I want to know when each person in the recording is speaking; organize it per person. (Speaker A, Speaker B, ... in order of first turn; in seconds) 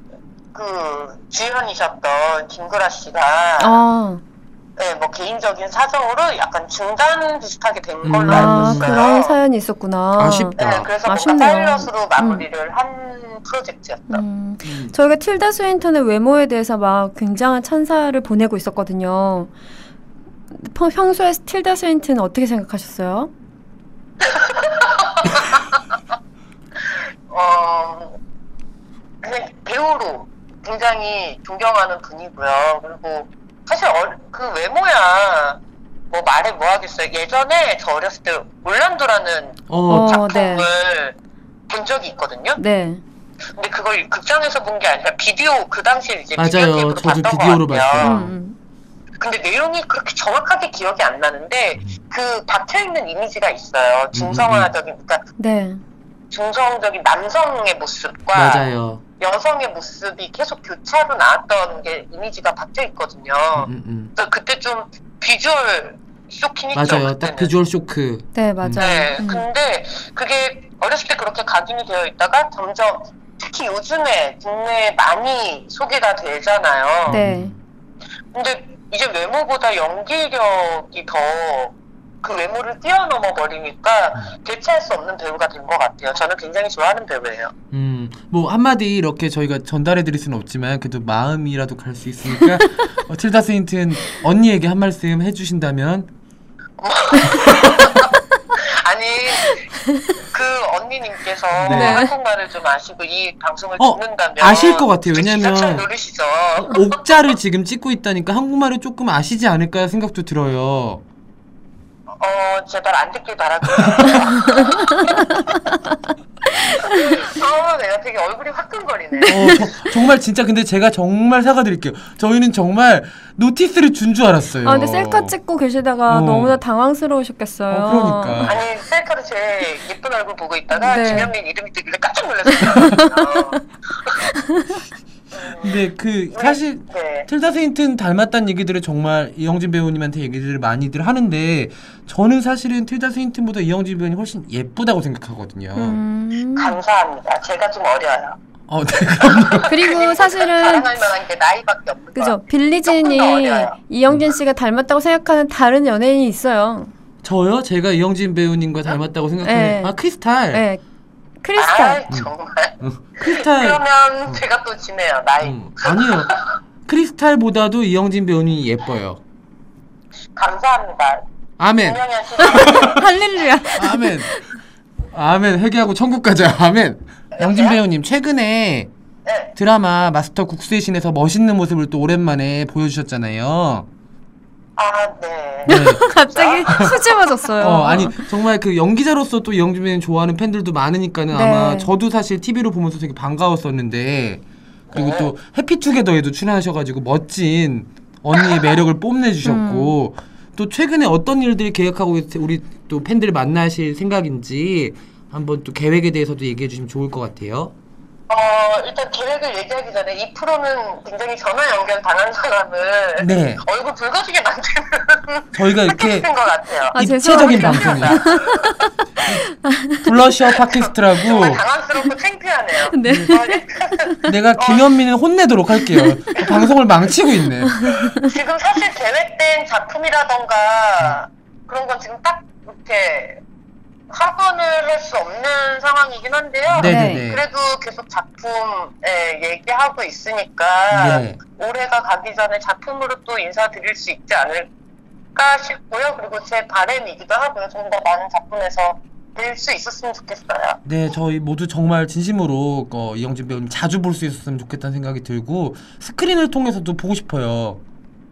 Speaker A: 0.5-3.8, 4.8-9.4, 10.6-14.2, 24.2-25.8, 27.3-28.2, 29.2-35.6, 36.1-41.1, 41.7-42.6, 43.5-48.2, 49.2-55.2, 56.3-58.7, 59.2-67.5, 68.8-77.2, 78.3-87.5, 96.8-107.2, 112.2-115.4, 116.8-119.5, 128.4-134.2, 135.3-137.3, 146.6-148.4, 149.2-153.8, 161.6-166.5, 170.4-171.2, 171.8-173.1, 177.3-177.8, 179.3-179.5, 184.8-187.5, 194.9-195.3, 208.3-218.6, 220.5-224.9, 226.4-226.7, 228.1-233.4, 234.1-244.7, 245.3-250.8
Speaker B: 3.6-4.2, 8.3-12.4, 14.1-19.5, 20.5-23.3, 39.9-40.7, 42.6-43.0, 48.0-48.6, 55.4-55.8, 68.3-69.5, 77.1-77.5, 92.3-92.8, 99.5-100.0, 101.7-102.1, 114.2-115.8, 116.6-117.3, 119.1-119.9, 124.6-128.5, 130.7-131.3, 132.6-133.6, 134.2-134.8, 145.8-146.8, 149.7-150.9, 152.2-156.9, 159.4-160.0, 160.5-160.8, 161.4-162.0, 172.4-174.6, 185.7-188.3, 191.3-191.9, 199.4-199.9, 216.9-218.9, 219.5-220.1, 222.9-224.3, 225.8-226.1, 227.6-228.3, 236.8-237.2
Speaker C: 8.0-9.0, 10.2-10.9, 14.7-14.9, 39.7-40.1, 46.4-48.3, 54.1-54.7, 58.3-59.0, 63.6-64.1, 66.7-69.1, 77.1-77.6, 87.7-96.1, 101.5-102.1, 103.8-105.9, 106.6-111.0, 113.9-114.2, 119.3-125.4, 126.1-126.6, 127.7-128.7, 135.6-146.0, 148.7-149.7, 157.2-160.7, 162.1-164.4, 165.4-166.3, 166.9-169.2, 171.6-173.0, 173.7-174.4, 175.1-178.9, 179.6-183.9, 185.7-186.0, 186.7-186.9, 187.6-194.4, 194.9-207.7, 213.2-213.6, 215.5-216.3, 216.9-218.3, 220.0-221.6, 223.1-223.3, 224.3-227.8, 236.7-237.4, 240.9-241.4, 250.8-257.8